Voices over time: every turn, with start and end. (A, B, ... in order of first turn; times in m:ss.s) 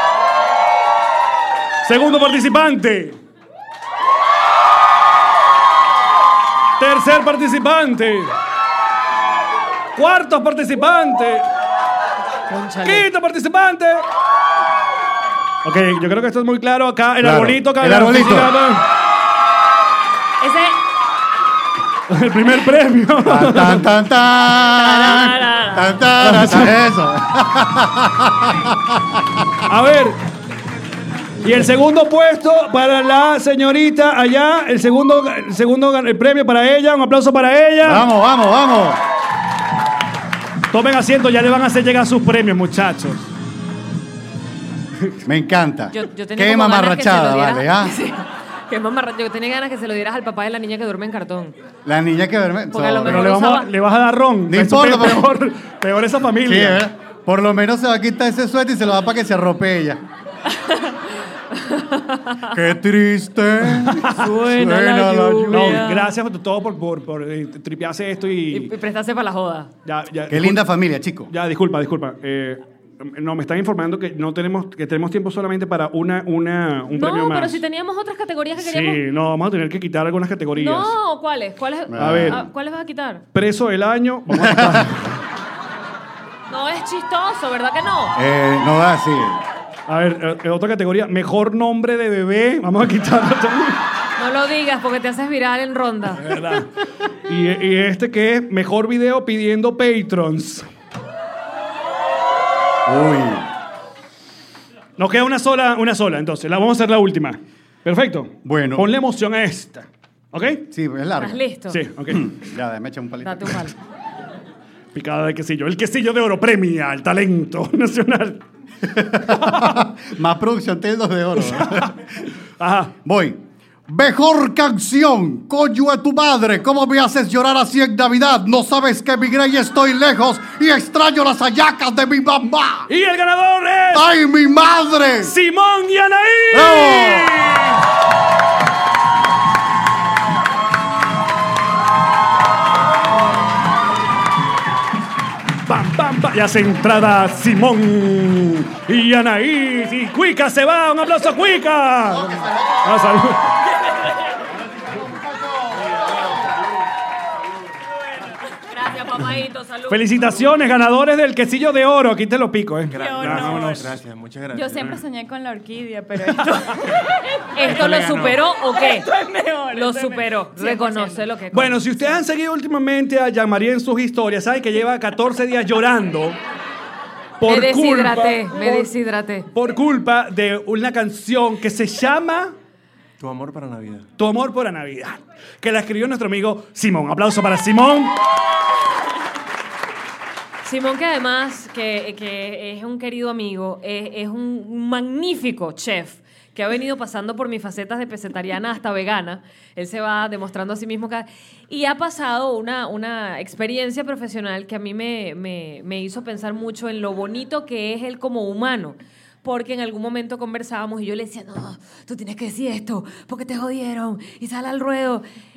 0:01.8-0:03.2 A
0:06.8-0:08.3 A
0:10.0-0:11.5 A
0:12.5-0:13.0 B
0:12.8-0:14.0 A
0:15.6-0:18.8 A
0:17.2-0:18.6 C
0:20.4-0:20.8 B
0:22.1-0:23.9 A
0:23.2-0:29.2 C
0:24.7-0:26.0 B
0:26.2-0:26.8 A
0:29.7-0:30.2 A
0:31.4-0:38.1 A
0:37.8-0:39.0 C
0:40.7-0:43.3 A
0:45.3-0:48.0 C
0:45.9-0:51.6 B
0:51.8-0:53.3 C
0:52.7-0:53.7 B
0:53.0-0:56.9 A
0:54.5-0:55.3 C
0:56.4-1:00.0 C
1:00.5-1:01.0 B
1:01.5-1:02.4 B
1:02.5-1:05.8 C
1:03.9-1:04.3 A
1:04.0-1:06.1 B
1:05.5-1:08.7 A
1:08.5-1:09.7 B
1:09.8-1:10.6 A
1:10.3-1:11.3 C
1:11.3-1:17.6 A
1:16.9-1:19.0 B
1:18.6-1:21.0 A
1:20.6-1:23.2 B
1:21.9-1:22.4 C
1:22.0-1:22.4 A
1:23.3-1:25.0 A
1:24.4-1:24.9 C
1:26.5-1:28.1 B
1:28.2-1:29.4 C
1:29.9-1:33.8 A
1:34.2-1:36.3 B
1:36.2-1:36.7 A
1:37.3-1:40.7 A
1:42.9-1:43.5 C
1:45.0-1:50.6 A
1:48.4-1:48.9 C
1:50.7-1:51.4 C
1:51.2-1:51.8 B
1:51.7-1:52.3 A
1:52.1-1:53.7 C
1:53.2-1:53.7 B
1:54.9-1:58.4 A
1:58.9-2:02.0 C
1:59.2-1:59.9 A
2:01.3-2:01.9 A
2:02.6-2:02.9 A
2:03.0-2:12.9 C
2:12.9-2:14.1 A
2:13.9-2:15.3 C
2:15.2-2:17.8 A
2:16.5-2:17.4 C
2:25.6-2:33.6 A
2:38.5-2:40.2 B
2:39.9-2:43.8 A
2:42.9-2:45.0 D
2:43.0-2:43.9 E
2:44.5-2:47.6 E
2:46.2-2:46.6 A
2:47.6-2:49.1 B
2:47.7-2:48.4 D
2:48.6-2:51.3 E
2:49.7-2:52.1 B
2:51.5-2:56.4 A
2:57.4-2:58.9 A
2:57.4-2:59.5 B
2:59.5-3:02.6 A
3:03.2-3:04.1 D
3:04.2-3:08.2 A
3:10.6-3:35.2 B